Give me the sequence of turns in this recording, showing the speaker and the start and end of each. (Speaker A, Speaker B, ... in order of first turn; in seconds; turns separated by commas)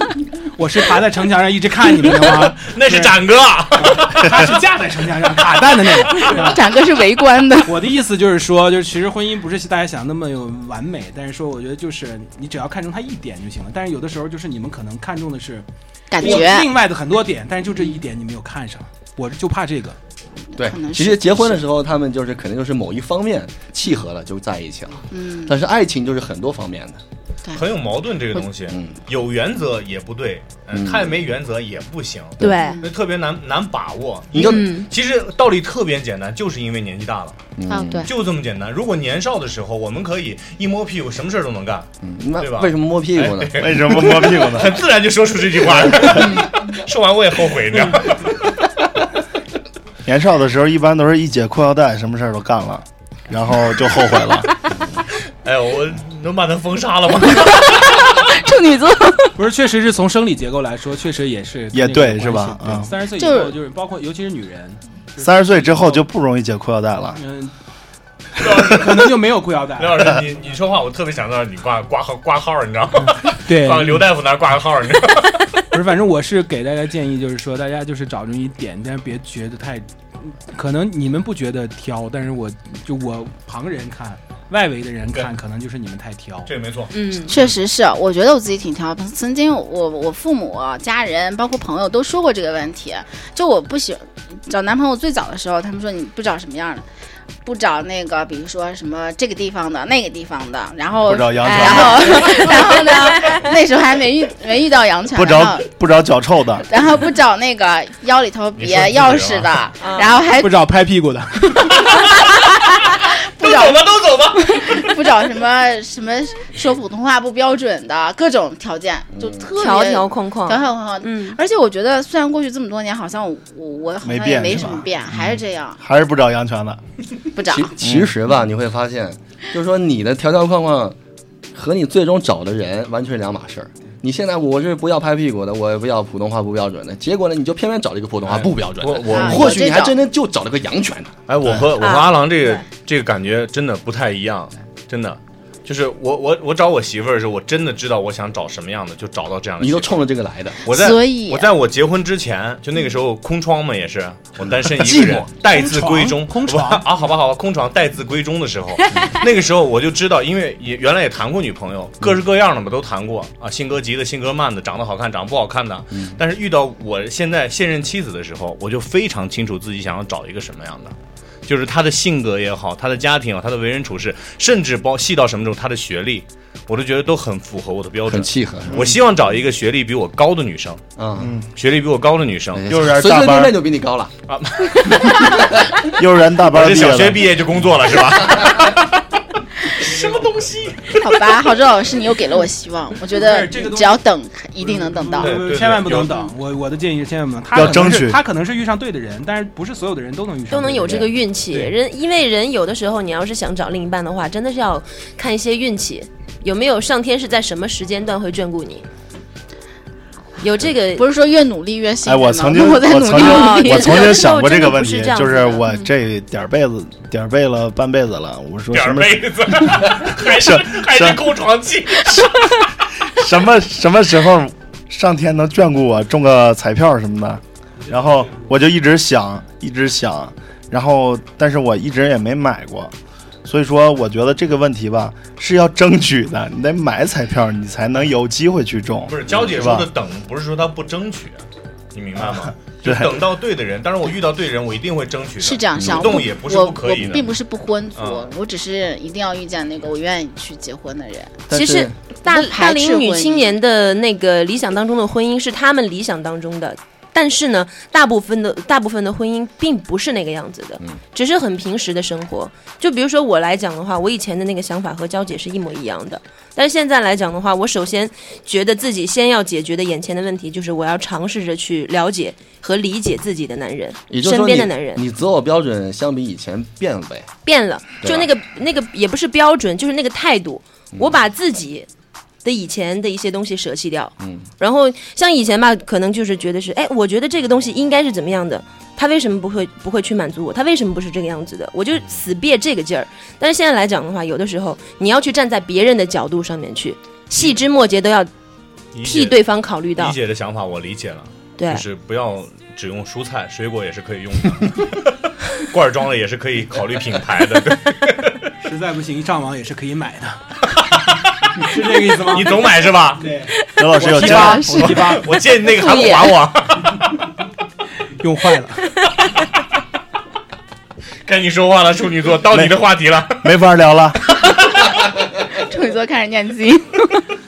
Speaker A: 0.6-3.2, Speaker B: 2.6-4.3, Speaker A: 3.8-6.6, Speaker C: 6.2-7.8, Speaker A: 7.7-15.7, Speaker C: 16.1-16.7, Speaker A: 16.2-20.0, Speaker C: 20.6-21.6, Speaker D: 20.6-27.0, Speaker C: 25.1-25.6, Speaker B: 27.5-37.4, Speaker D: 28.7-29.0, Speaker D: 30.7-31.2, Speaker E: 32.4-32.8, Speaker C: 32.6-32.9, Speaker D: 34.3-34.7, Speaker E: 34.4-34.9, Speaker D: 37.6-38.1, Speaker C: 37.7-38.1, Speaker B: 38.1-48.5, Speaker D: 42.0-43.8, Speaker F: 43.6-44.8, Speaker F: 50.0-54.5, Speaker B: 55.4-58.3, Speaker C: 57.4-59.4, Speaker A: 59.4-66.0, Speaker F: 61.7-62.9, Speaker C: 63.2-63.6, Speaker F: 65.2-67.2, Speaker A: 67.2-67.5, Speaker B: 68.4-69.0, Speaker A: 68.4-70.2, Speaker B: 69.8-75.6, Speaker A: 73.5-74.0, Speaker A: 75.7-86.5, Speaker B: 86.5-87.6, Speaker E: 86.9-87.3, Speaker C: 87.3-96.8, Speaker C: 97.4-105.7, Speaker F: 101.0-102.5, Speaker E: 101.4-103.4, Speaker F: 105.2-106.7, Speaker C: 106.7-110.5, Speaker B: 108.6-109.6, Speaker E: 109.8-110.1, Speaker A: 110.4-111.8, Speaker C: 111.7-125.8, Speaker B: 111.8-112.5, Speaker B: 113.4-114.9, Speaker D: 119.2-119.5, Speaker E: 119.6-121.4, Speaker F: 124.0-124.9, Speaker F: 125.8-126.8, Speaker C: 127.3-127.8, Speaker D: 127.5-131.0, Speaker F: 127.8-128.1, Speaker D: 131.5-141.1, Speaker B: 138.3-139.6, Speaker C: 139.1-140.0, Speaker B: 141.3-150.0, Speaker E: 141.8-142.6, Speaker D: 149.6-150.6, Speaker B: 150.7-170.9, Speaker C: 150.7-151.5, Speaker A: 154.9-156.9, Speaker D: 165.9-166.2, Speaker B: 171.5-180.8, Speaker D: 178.1-178.9, Speaker D: 181.0-181.3, Speaker F: 181.2-181.5, Speaker B: 181.6-182.7, Speaker D: 182.5-184.1, Speaker F: 182.7-183.6, Speaker B: 184.3-185.6, Speaker F: 185.9-187.3, Speaker B: 186.5-189.0, Speaker B: 189.8-191.1, Speaker A: 189.8-190.3, Speaker C: 191.0-195.5, Speaker A: 193.1-194.0, Speaker A: 194.6-201.1, Speaker B: 195.2-196.3, Speaker F: 197.5-198.2, Speaker E: 200.5-208.8, Speaker E: 210.4-211.1, Speaker C: 211.0-214.2, Speaker F: 212.1-221.2, Speaker E: 213.1-215.7, Speaker B: 218.7-222.2, Speaker F: 222.1-222.3, Speaker F: 223.0-232.9, Speaker A: 227.8-228.5, Speaker F: 233.4-239.9, Speaker B: 239.1-247.3, Speaker F: 242.2-243.2, Speaker C: 245.4-251.4, Speaker D: 245.8-246.2, Speaker B: 248.0-248.3, Speaker D: 251.5-252.0, Speaker E: 251.5-275.0, Speaker C: 252.2-253.6, Speaker D: 274.1-277.3, Speaker E: 277.4-281.9, Speaker D: 278.0-278.3, Speaker E: 282.4-298.3, Speaker D: 284.2-284.5, Speaker B: 298.9-299.4, Speaker E: 299.0-300.2, Speaker B: 300.0-308.5, Speaker E: 301.6-301.8, Speaker A: 308.6-310.4, Speaker B: 310.8-311.6, Speaker A: 311.6-315.3, Speaker B: 312.2-313.3, Speaker F: 313.8-314.9, Speaker B: 314.2-317.1, Speaker E: 314.2-314.9, Speaker E: 315.6-316.4, Speaker A: 318.2-318.9, Speaker B: 321.2-323.5, Speaker F: 323.4-324.2, Speaker C: 325.6-327.2